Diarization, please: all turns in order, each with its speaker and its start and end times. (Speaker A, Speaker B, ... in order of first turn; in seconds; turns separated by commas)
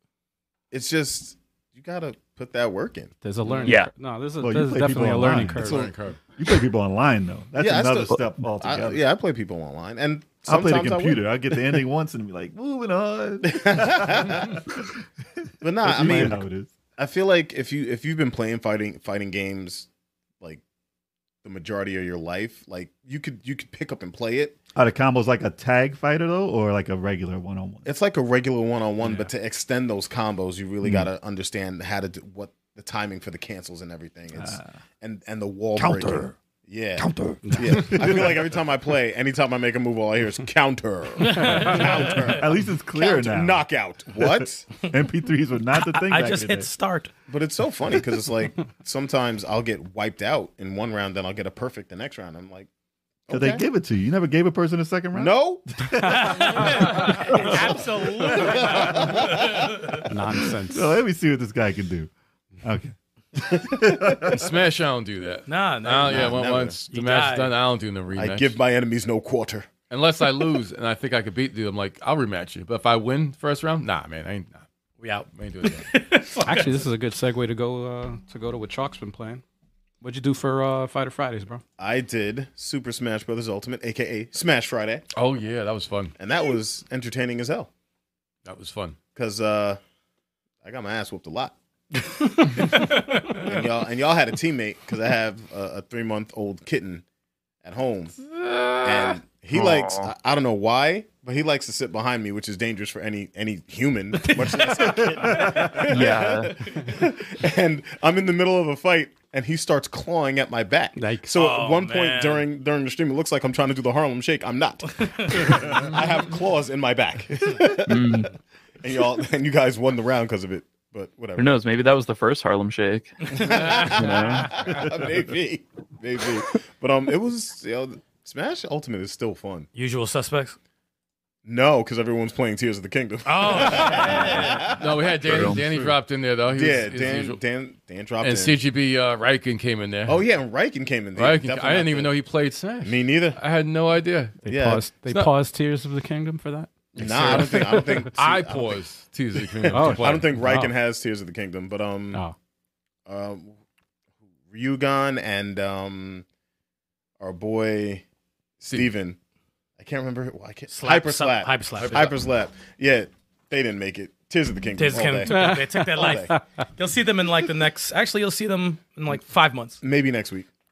Speaker A: 0.7-3.6, Speaker B: 3.2-5.9, Speaker C: 3.6-3.9, Speaker D: 4.4-9.0, Speaker E: 5.5-6.2, Speaker A: 7.6-11.8, Speaker D: 10.5-15.0, Speaker A: 13.5-14.7, Speaker A: 15.6-16.4, Speaker D: 15.8-16.7, Speaker A: 17.0-19.9, Speaker A: 21.4-24.6, Speaker D: 24.8-27.9, Speaker A: 27.9-44.7, Speaker D: 34.3-34.7, Speaker D: 35.8-36.3, Speaker D: 37.0-38.4, Speaker B: 37.4-38.0, Speaker F: 41.3-42.1, Speaker D: 41.7-43.6, Speaker D: 44.8-46.7, Speaker F: 45.8-47.1, Speaker A: 47.3-52.7, Speaker A: 53.3-53.6, Speaker D: 53.3-57.8, Speaker A: 55.1-55.7, Speaker F: 56.0-60.0, Speaker A: 57.3-59.9, Speaker B: 60.0-61.0, Speaker D: 60.7-62.1, Speaker D: 62.6-64.5, Speaker E: 64.3-68.6, Speaker F: 65.5-67.5, Speaker A: 66.0-66.9, Speaker A: 68.1-69.7, Speaker E: 69.9-74.7, Speaker F: 75.0-76.9, Speaker E: 75.3-75.9, Speaker B: 76.4-79.4, Speaker B: 80.0-81.6, Speaker A: 81.8-85.0, Speaker E: 85.1-86.1, Speaker A: 86.2-87.7, Speaker E: 88.5-89.0, Speaker A: 89.2-89.8, Speaker A: 90.6-97.0, Speaker A: 97.6-98.2, Speaker E: 98.2-99.2, Speaker A: 98.8-118.3, Speaker C: 99.5-100.1, Speaker F: 104.3-105.8, Speaker D: 105.2-105.8, Speaker C: 105.9-106.6, Speaker B: 111.0-111.3, Speaker F: 111.3-112.5, Speaker C: 117.9-118.3, Speaker A: 118.8-121.6, Speaker C: 121.4-124.5, Speaker A: 123.3-129.7, Speaker F: 129.8-130.6, Speaker A: 131.4-135.9, Speaker F: 133.2-134.7, Speaker E: 134.7-137.4, Speaker A: 136.5-138.6, Speaker E: 138.2-140.2, Speaker A: 140.1-142.1, Speaker E: 141.2-144.4, Speaker A: 142.8-143.4, Speaker B: 144.4-146.7, Speaker A: 144.4-144.9, Speaker E: 145.1-145.3, Speaker E: 146.9-150.3, Speaker A: 147.0-148.8, Speaker B: 147.2-148.0, Speaker A: 149.3-152.2, Speaker B: 149.7-150.7, Speaker A: 153.1-153.6, Speaker A: 154.5-156.3, Speaker A: 157.2-158.1, Speaker A: 158.6-159.2, Speaker A: 159.8-166.3, Speaker F: 160.7-162.2, Speaker E: 161.8-162.1, Speaker F: 164.8-169.8, Speaker B: 165.3-166.4, Speaker A: 169.8-170.5